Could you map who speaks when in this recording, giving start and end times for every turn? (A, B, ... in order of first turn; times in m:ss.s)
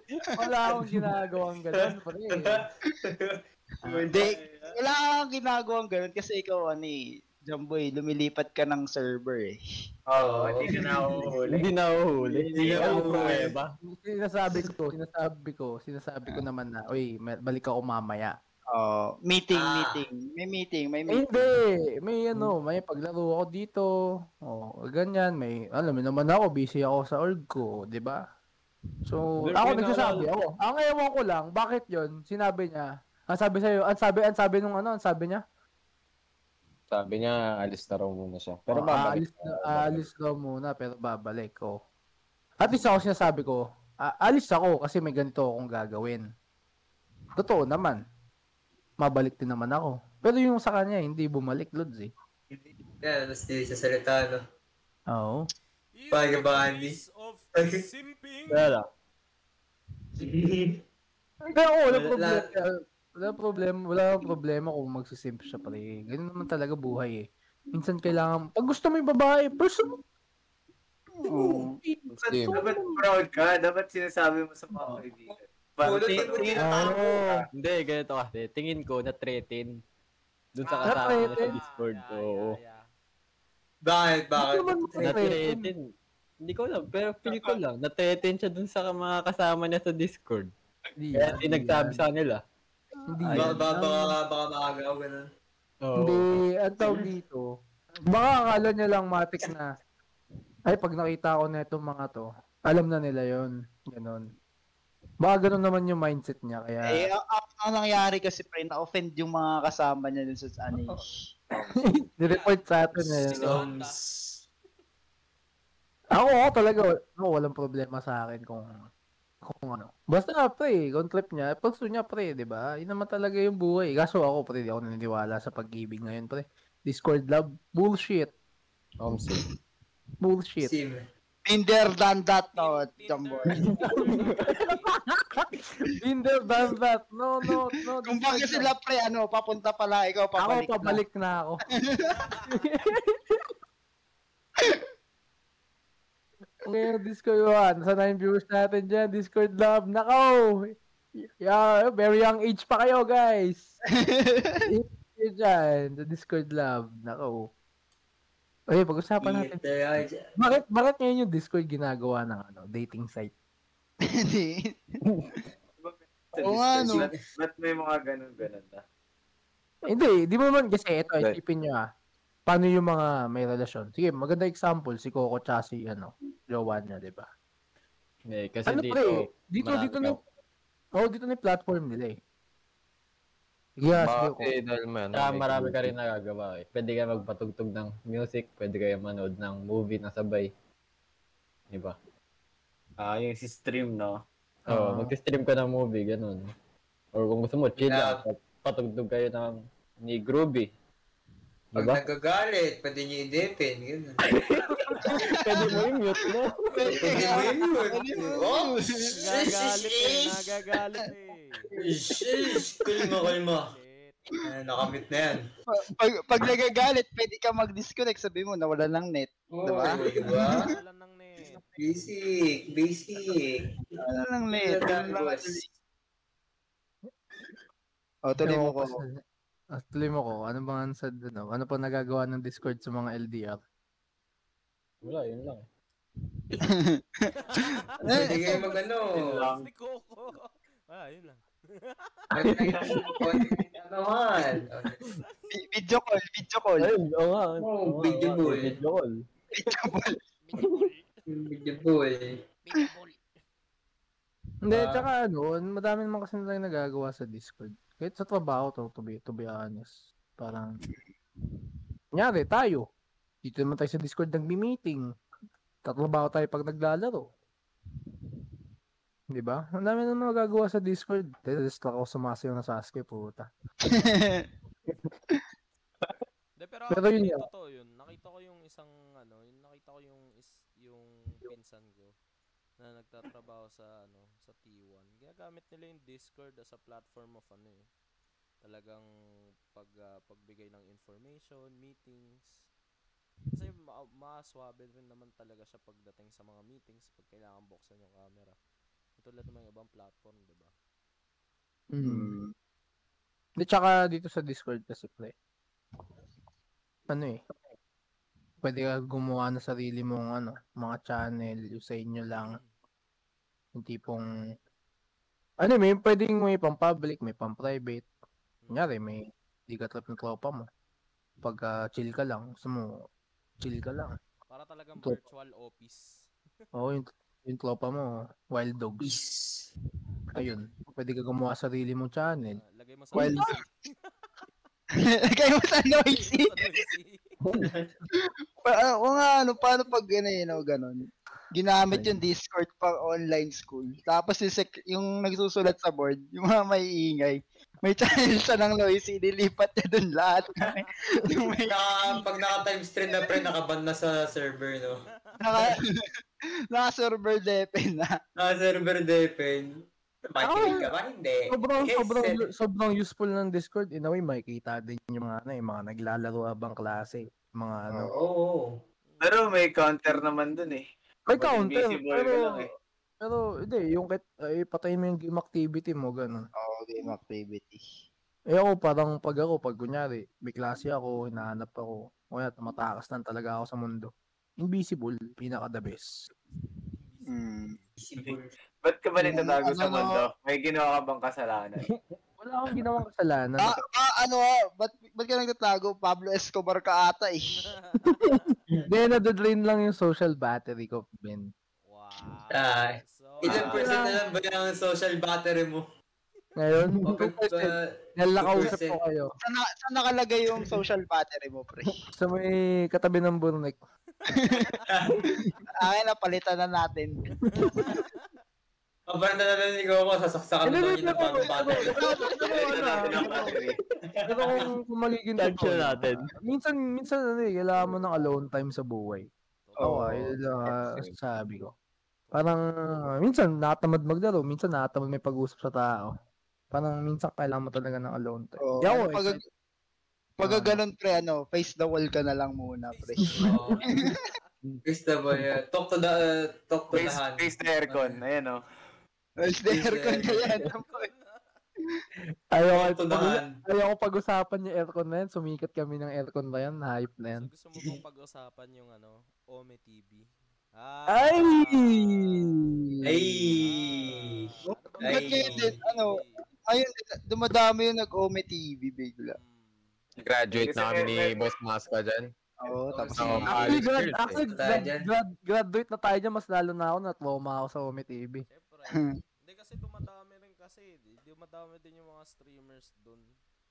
0:00.4-0:02.6 A
0:01.7-0:03.4 B
0:03.9-0:09.6 C
0:04.0-0:04.7 D
0:10.1-0:11.6 D
0:10.2-0:10.9 B
0:11.5-0:13.7 E
0:12.6-0:13.5 B
0:12.8-0:13.4 A
0:13.9-0:18.3 A
0:18.7-0:21.5 C
0:19.5-0:20.0 B
0:21.1-0:23.9 A
0:24.4-0:28.2 A
0:29.0-0:35.4 A
0:29.5-0:30.3 E
0:36.9-0:40.0 F
0:38.7-0:41.8 A
0:42.6-0:46.2 A
0:47.4-0:48.0 A
0:49.0-0:52.1 A
0:52.5-0:54.4 B
0:55.1-0:55.5 A
0:55.9-0:58.7 G
0:56.1-0:57.0 B
0:57.5-0:57.8 B
0:58.5-0:58.8 E
1:00.2-1:00.8 B
1:01.5-1:09.9 A
1:01.9-1:02.5 B
1:11.2-1:11.8 C
1:11.4-1:13.0 A
1:12.2-1:12.6 F
1:12.5-1:17.4 D
1:15.3-1:17.0 B
1:16.6-1:17.4 A
1:17.5-1:19.8 E
1:20.5-1:22.6 E
1:20.6-1:22.9 G
1:20.8-1:21.6 A
1:23.8-1:25.4 B
1:24.4-1:25.7 A
1:25.0-1:25.9 E
1:26.4-1:30.5 E
1:27.3-1:27.5 C
1:31.0-1:32.0 A
1:31.1-1:32.4 E
1:33.1-1:34.1 A
1:33.3-1:35.3 B
1:35.8-1:36.3 E
1:35.9-1:37.4 A
1:38.1-1:39.7 A
1:40.7-1:44.2 A
1:45.2-1:47.1 A
1:47.0-1:51.2 C
1:51.6-1:53.6 A
1:52.2-1:54.0 G
1:53.1-1:54.4 B
1:56.1-1:58.7 A
1:59.4-2:08.3 A
2:09.0-2:09.4 F
2:10.2-2:10.7 A
2:10.6-2:11.0 B
2:11.5-2:13.6 C
2:12.5-2:15.0 G
2:15.1-2:18.7 A
2:18.0-2:21.0 C
2:20.4-2:21.6 A
2:21.8-2:22.3 C
2:22.1-2:22.5 G
2:22.5-2:23.5 A
2:24.6-2:24.9 C
2:26.6-2:30.7 A
2:31.4-2:33.7 A
2:34.0-2:34.7 C
2:34.6-2:37.5 A
2:38.7-2:39.6 A
2:39.2-2:40.3 B
2:40.4-2:43.3 A
2:44.1-2:44.8 C
2:45.8-2:48.8 D
2:46.4-2:47.1 C
2:46.9-2:47.2 B
2:49.9-2:51.8 A
2:52.5-2:57.2 A
2:58.3-3:00.2 E
2:58.7-3:00.2 A
3:01.0-3:02.2 A
3:03.8-3:04.5 A
3:03.9-3:05.9 F
3:05.1-3:10.5 E
3:11.7-3:12.0 E
3:13.0-3:14.2 D
3:14.7-3:15.1 A
3:14.7-3:16.5 E
3:17.1-3:20.7 E
3:17.8-3:18.2 B
3:21.7-3:22.1 E
3:21.8-3:24.2 B
3:25.0-3:27.3 E
3:25.0-3:25.9 C
3:26.7-3:29.1 C
3:26.9-3:30.5 B
3:29.1-3:31.7 G
3:31.8-3:33.7 B
3:33.5-3:34.4 G
3:34.4-3:35.5 B
3:35.7-3:40.7 C
3:39.5-3:40.7 B
3:40.2-3:42.0 G
3:41.8-3:44.0 B
3:44.0-3:45.6 C
3:44.5-3:45.6 B
3:48.3-3:49.0 C
3:48.4-3:49.2 A
3:49.7-3:53.6 A
3:55.0-3:55.6 E
3:56.5-3:58.6 C
3:57.4-4:02.3 G
3:58.0-3:59.5 B
3:59.1-3:59.7 D
4:02.3-4:05.0 B
4:02.4-4:03.4 E
4:02.8-4:03.7 G
4:05.0-4:05.7 G
4:05.6-4:06.9 C
4:06.8-4:09.1 E
4:07.6-4:08.8 B
4:09.5-4:10.2 C
4:10.4-4:11.2 G
4:10.6-4:10.9 E
4:11.3-4:12.4 B
4:12.6-4:13.4 G
4:14.6-4:20.8 A
4:14.7-4:15.0 B
4:22.1-4:22.8 A
4:23.4-4:25.0 A
4:25.8-4:27.2 A
4:29.3-4:33.5 A
4:33.8-4:34.5 C
4:36.6-4:42.1 G
4:36.9-4:37.4 A
4:42.8-4:47.9 G
4:48.6-4:49.1 G
4:49.7-4:52.6 G
4:53.5-4:58.6 G
4:59.2-5:00.7 G
5:01.9-5:02.3 A
5:02.0-5:02.5 C
5:03.6-5:05.3 A
5:07.1-5:07.4 A
5:08.6-5:12.6 A
5:12.4-5:12.7 G
5:13.8-5:14.2 A
5:15.6-5:18.0 A
5:18.6-5:18.9 G
5:18.7-5:20.7 A
5:21.4-5:23.0 A
5:23.6-5:24.2 A
5:24.5-5:26.3 G
5:26.7-5:29.1 A
5:29.0-5:29.7 B
5:30.3-5:32.6 A
5:32.5-5:34.1 G
5:33.1-5:33.5 A
5:33.2-5:33.6 C
5:35.0-5:36.6 C
5:35.9-5:37.3 G
5:37.6-5:37.9 B
5:38.6-5:52.2 C
5:51.7-5:55.0 B
5:53.1-5:53.4 C
5:55.0-5:55.4 G
5:55.4-5:56.0 C
5:56.7-5:58.1 C
5:58.4-6:02.4 B
6:00.4-6:00.9 A
6:01.5-6:08.1 A
6:08.1-6:08.8 B
6:09.0-6:09.6 G
6:09.2-6:12.7 D
6:11.3-6:12.7 A
6:13.2-6:16.5 A
6:16.6-6:17.8 C
6:18.5-6:26.2 A
6:26.9-6:27.9 G
6:27.3-6:27.7 C
6:28.0-6:28.5 B
6:28.2-6:31.8 D
6:29.2-6:30.2 C
6:32.4-6:33.8 A
6:33.6-6:37.5 C
6:37.5-6:38.6 G
6:38.2-6:41.5 A
6:41.8-6:44.9 G
6:42.5-6:45.8 B
6:43.4-6:44.2 A
6:46.6-6:49.3 A
6:47.0-6:49.0 B
6:49.4-6:52.0 C
6:52.0-6:53.8 A
6:54.2-6:54.9 G
6:54.4-6:54.7 C
6:54.9-6:55.2 B
6:55.8-6:57.2 C
6:57.4-6:58.3 G
6:57.5-6:57.8 A
6:59.1-7:02.3 B
7:00.6-7:03.5 A
7:02.4-7:03.8 D
7:02.9-7:03.5 B
7:04.0-7:04.7 B
7:04.3-7:09.3 A
7:05.4-7:06.2 E
7:09.6-7:10.0 G
7:09.8-7:10.3 C
7:09.8-7:11.7 A
7:10.6-7:11.1 F
7:12.3-7:16.1 A
7:16.7-7:19.4 A
7:18.6-7:19.4 C
7:20.4-7:24.2 C
7:20.4-7:20.8 A
7:22.9-7:24.5 G
7:23.4-7:23.9 B
7:23.5-7:24.1 A
7:24.8-7:28.1 B
7:26.9-7:28.6 D
7:29.4-7:31.1 C
7:29.6-7:30.5 B
7:30.6-7:31.6 G
7:32.5-7:37.5 A
7:32.6-7:33.6 B
7:37.3-7:42.9 G
7:41.1-7:43.5 A
7:43.0-7:45.8 B
7:43.6-7:46.4 G
7:45.0-7:49.4 C
7:49.3-7:50.0 G
7:50.2-7:52.3 F
7:50.6-7:51.5 D
7:52.6-7:53.6 C
7:53.2-7:54.4 F
7:53.2-7:53.5 G
7:53.2-7:53.8 B
7:53.6-7:58.4 A
7:54.5-7:55.1 B
7:58.5-8:03.3 G